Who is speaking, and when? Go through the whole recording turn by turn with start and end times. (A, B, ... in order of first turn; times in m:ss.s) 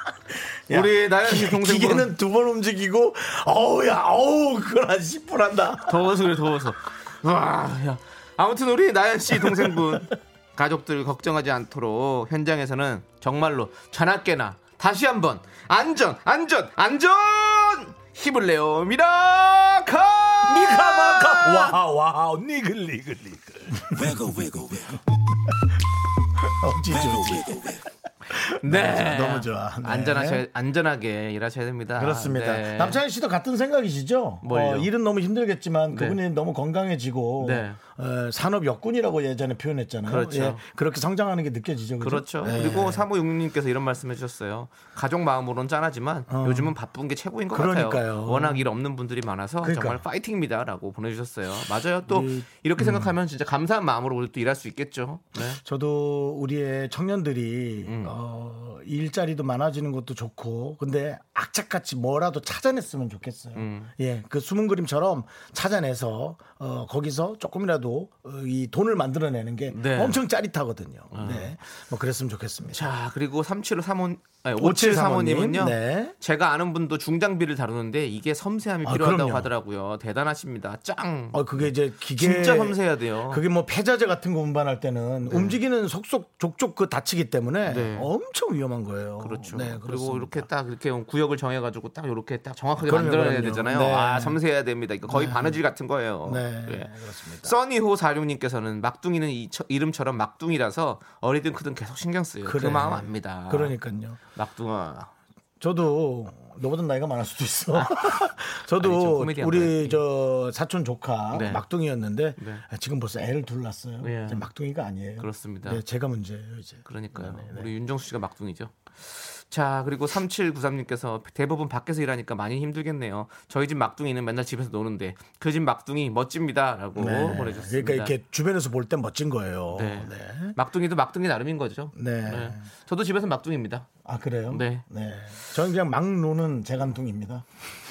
0:00.7-0:06.0 A
0:00.7-0:02.1 B
0:05.9-0:21.8 B
0:20.4-0:25.7 A
0:26.4-0:30.4 A
0:28.6-0:33.0 B
0:32.0-0:43.1 A
0:34.4-0:34.9 B
0:35.9-0:36.2 B
0:37.4-0:37.8 B
0:40.0-0:40.6 B
0:42.0-0:55.6 B
0:46.3-0:46.7 A
0:47.5-0:48.6 A
0:49.6-0:50.0 A
0:52.1-0:53.1 A
0:55.4-1:12.9 A
0:57.8-0:58.1 B
1:03.6-1:03.9 B
1:09.7-1:10.2 B
1:11.1-1:11.5 B
1:12.7-1:23.4 B
1:14.6-1:16.2 A
1:18.8-1:19.5 A
1:21.3-1:30.5 A
1:25.3-1:25.6 B
1:27.6-1:28.1 B
1:29.2-1:36.9 B
1:32.8-1:34.4 A
1:35.1-1:35.6 A
1:36.2-1:37.5 A
1:37.4-1:43.8 B
1:42.4-1:44.2 A
1:44.3-1:45.1 B
1:45.6-1:57.7 A
1:47.8-1:48.2 B
1:48.8-1:50.0 B
1:51.3-1:51.6 B
1:52.4-1:52.6 B
1:54.0-1:54.5 B
1:55.2-1:55.8 B
1:56.9-2:08.1 B
2:06.9-2:10.6 A
2:09.7-2:13.9 B
2:11.9-2:12.7 A
2:14.0-2:17.4 A
2:14.5-2:14.8 B